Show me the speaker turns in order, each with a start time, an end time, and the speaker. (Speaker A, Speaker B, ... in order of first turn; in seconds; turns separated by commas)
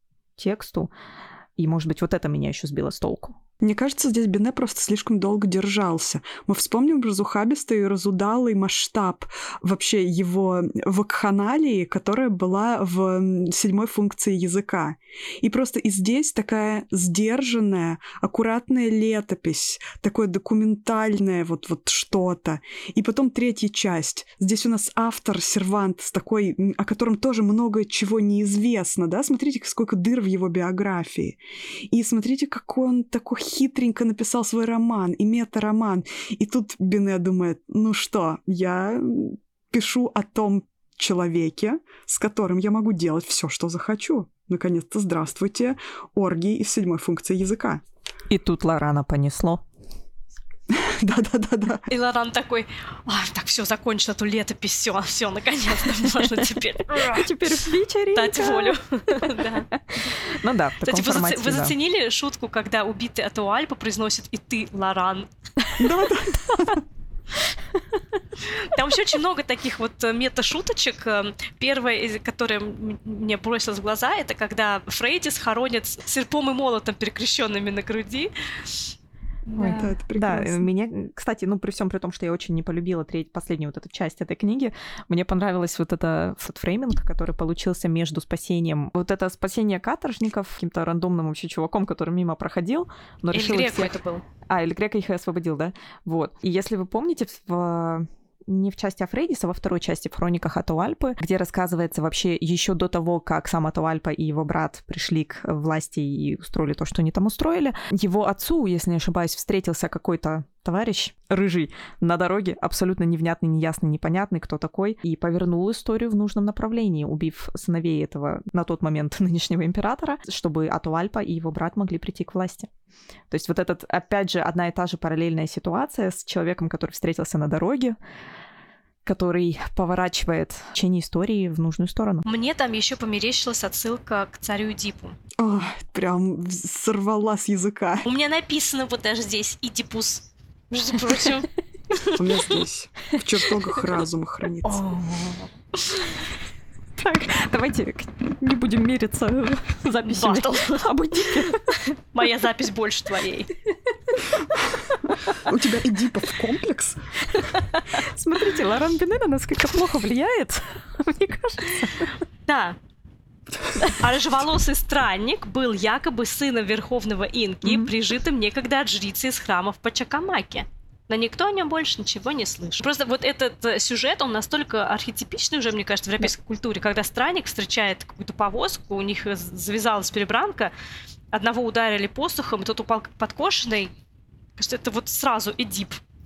Speaker A: 0.4-0.9, Speaker A: 1.6-3.4, Speaker B: 3.6-31.4, Speaker B: 31.9-47.8, Speaker A: 48.3-49.6, Speaker B: 50.7-51.9, Speaker C: 51.9-57.3, Speaker A: 56.9-61.7, Speaker C: 58.1-59.7, Speaker C: 60.8-65.3, Speaker B: 65.8-66.8, Speaker C: 68.4-78.9, Speaker C: 79.5-79.9, Speaker A: 79.5-122.7, Speaker B: 79.6-80.7, Speaker C: 93.3-94.2, Speaker A: 123.3-128.0, Speaker A: 129.0-132.2, Speaker C: 132.2-135.2, Speaker B: 135.4-138.1, Speaker C: 138.0-142.6, Speaker B: 142.1-144.8, Speaker A: 144.7-145.4, Speaker C: 144.8-146.1, Speaker A: 147.0-151.8, Speaker C: 149.9-150.9, Speaker C: 151.5-153.5, Speaker A: 155.0-155.3, Speaker B: 155.4-157.1, Speaker A: 157.3-162.1, Speaker C: 162.4-162.8, Speaker C: 163.8-180.7, Speaker A: 167.6-167.9, Speaker C: 181.3-183.9, Speaker C: 184.6-186.0